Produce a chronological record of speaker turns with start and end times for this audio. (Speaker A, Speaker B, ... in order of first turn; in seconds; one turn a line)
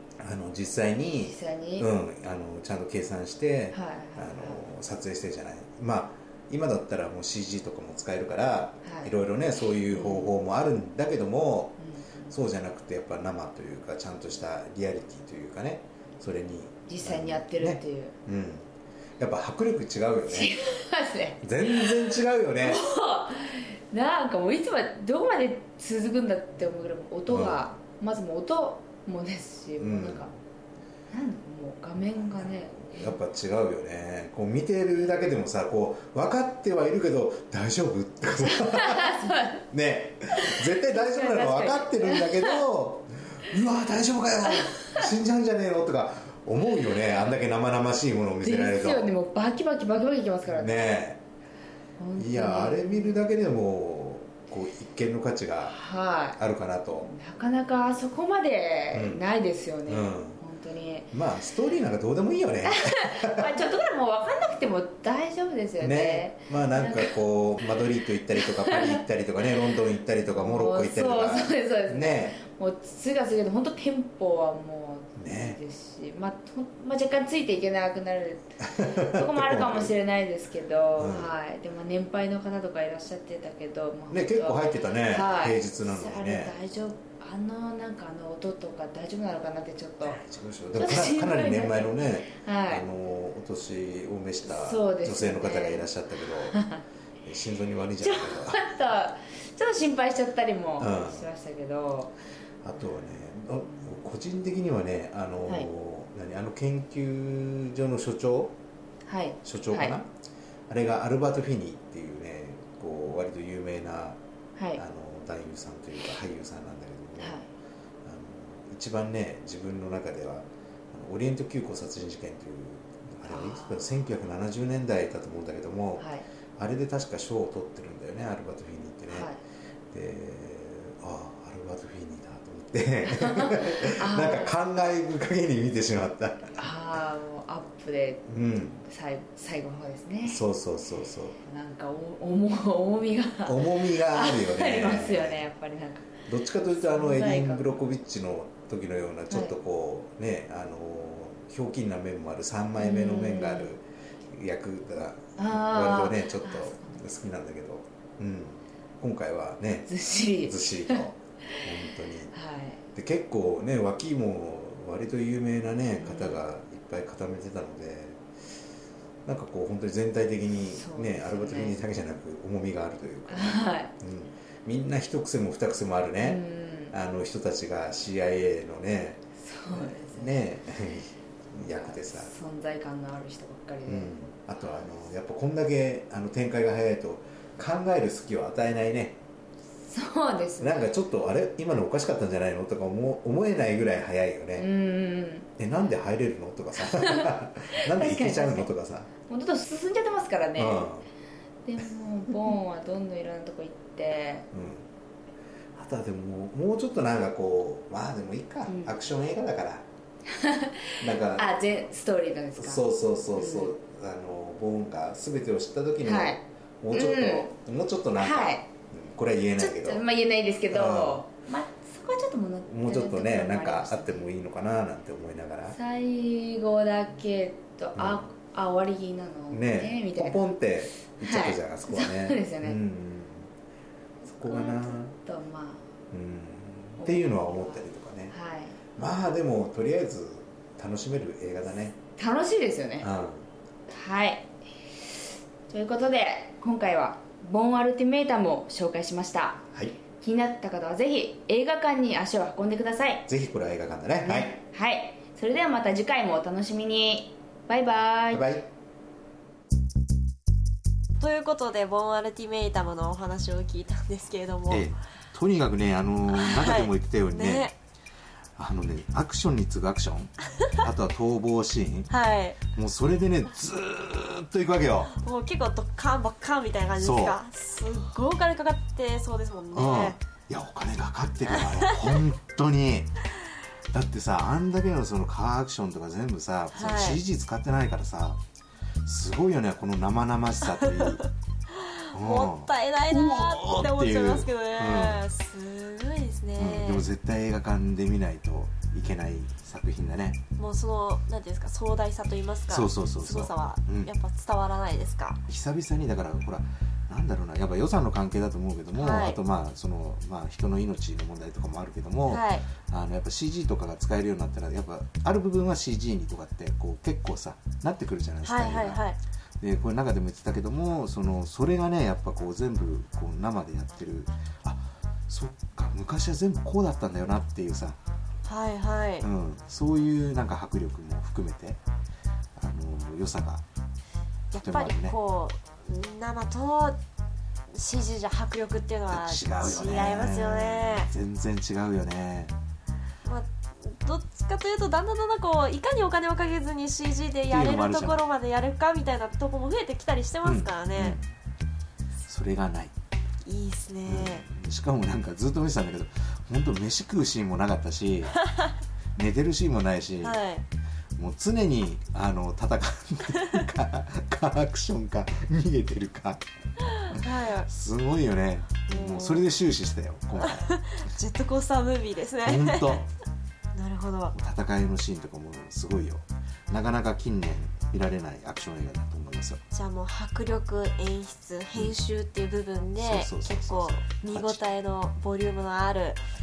Speaker A: 0.2-11.8
Speaker B: 1.2-1.9
Speaker B: 3.7-4.6
Speaker B: 8.8-9.2
Speaker B: 9.9-10.3
Speaker B: 11.8-12.3
Speaker A: 12.3-20.6
Speaker B: 16.9-18.1
Speaker B: 20.3-30.3
Speaker A: 21.4-22.9
Speaker A: 27.3-27.6
Speaker A: 29.8-30.4
Speaker B: 31.1-33.2
Speaker A: 32.0-49.1
Speaker B: 38.4-39.6
Speaker B: 40.4-42.6
Speaker B: 44.5-45.1
Speaker B: 48.4-50.8
Speaker A: 50.5-51.2
Speaker B: 52.0-53.3
Speaker A: 52.2-55.8
Speaker B: 55.6-56.4
Speaker A: 56.4-57.1
Speaker B: 57.0-61.1
Speaker A: 58.9-59.2
Speaker A: 59.9-60.4
Speaker A: 61.1-63.6
Speaker B: 62.7-67.2
Speaker A: 65.8-72.4
Speaker B: 68.3-69.7
Speaker B: 70.4-90.2
Speaker A: 75.2-75.6
Speaker A: 78.6-79.9
Speaker A: 81.0-81.3
Speaker A: 84.1-86.5
Speaker A: 90.0-96.6
Speaker B: 90.8-92.9
Speaker B: 94.5-96.8
Speaker A: 97.2-98.6
Speaker B: 98.0-102.1
Speaker A: 100.8-101.3
Speaker A: 102.6-108.6
Speaker B: 109.1-110.0
Speaker A: 109.5-110.1
Speaker A: 110.7-114.2
Speaker A: 114.8-117.4
Speaker B: 117.2-117.5
Speaker A: 118.0-126.1
Speaker B: 123.3-124.0
Speaker B: 126.0-126.3
Speaker A: 126.6-129.3
Speaker B: 129.1-129.4
Speaker A: 129.9-136.7
Speaker B: 133.1-134.5
Speaker B: 136.6-138.3
Speaker A: 138.3-138.8
Speaker B: 138.8-140.4
Speaker A: 140.2-141.4
Speaker B: 141.4-147.8
Speaker A: 143.4-145.4
Speaker A: 146.3-159.9
Speaker B: 149.3-149.6
Speaker B: 152.8-153.7
Speaker B: 155.4-157.1
Speaker B: 159.9-161.1
Speaker A: 160.4-162.3
Speaker B: 162.3-162.8
Speaker A: 162.9-168.2
Speaker B: 166.0-166.4
Speaker A: 169.3-182.3
Speaker B: 170.7-171.8
Speaker B: 173.3-173.9
Speaker B: 176.2-176.9
Speaker B: 179.4-180.4
Speaker B: 181.7-184.1
Speaker A: 183.9-189.2
Speaker B: 189.8-190.9
Speaker A: 190.6-194.7
Speaker B: 194.6-195.5
Speaker A: 195.6-199.1
Speaker B: 196.8-198.7
Speaker B: 199.3-200.9
Speaker A: 200.6-201.1
Speaker B: 201.7-204.5
Speaker A: 204.5-204.9
Speaker A: 205.8-209.9
Speaker B: 208.7-209.0
Speaker B: 210.3-213.7
Speaker A: 211.0-211.6
Speaker A: 212.6-220.0
Speaker B: 216.0-217.6
Speaker B: 218.2-218.7
Speaker B: 219.6-224.3
Speaker A: 220.7-221.2
Speaker A: 222.7-225.8
Speaker B: 225.7-230.5
Speaker A: 228.0-228.3
Speaker A: 229.5-233.5
Speaker B: 231.2-232.8
Speaker A: 234.3-235.1
Speaker B: 234.4-235.8
Speaker A: 236.1-238.3
Speaker B: 237.0-238.8
Speaker A: 238.9-242.0
Speaker B: 242.2-243.1
Speaker A: 243.0-243.5
Speaker B: 243.9-244.5
Speaker B: 245.7-249.7
Speaker A: 249.7-250.0
Speaker B: 250.2-253.3
Speaker A: 253.3-254.6
Speaker B: 254.2-258.5
Speaker A: 258.3-258.7
Speaker C: 261.2-264.9
Speaker A: 264.7-267.7
Speaker C: 266.3-267.8
Speaker A: 268.6-272.1
Speaker C: 272.1-272.6
Speaker A: 272.6-275.1
Speaker C: 275.1-280.2
Speaker A: 277.0-277.4
Speaker A: 279.7-283.1
Speaker A: 283.9-288.4
Speaker C: 286.7-287.2
Speaker A: 289.1-291.2
Speaker C: 290.8-297.1
Speaker A: 292.1-295.2
Speaker A: 296.6-300.4
Speaker C: 300.6-305.4
Speaker A: 302.7-304.1
Speaker A: 305.5-319.0
Speaker C: 309.0-309.4
Speaker C: 312.3-312.7
Speaker C: 318.4-319.2
Speaker A: 319.6-328.0
Speaker C: 328.4-329.3
Speaker A: 329.2-331.8
Speaker A: 332.6-333.6
Speaker C: 334.5-337.0
Speaker A: 334.6-335.2
Speaker C: 337.7-341.1
Speaker A: 339.1-342.6
Speaker C: 343.2-351.2
Speaker A: 347.5-348.2
Speaker A: 350.4-351.2
Speaker A: 352.3-352.9
Speaker C: 353.4-354.5
Speaker A: 354.1-358.4
Speaker C: 358.4-358.8
Speaker A: 359.2-360.4
Speaker C: 360.2-360.6
Speaker A: 361.2-366.4
Speaker C: 366.8-367.7
Speaker A: 367.0-370.8
Speaker C: 368.9-369.5
Speaker C: 370.4-373.1
Speaker A: 372.4-373.1
Speaker C: 373.8-374.4
Speaker A: 374.3-379.6
Speaker C: 379.7-386.2
Speaker A: 383.0-384.6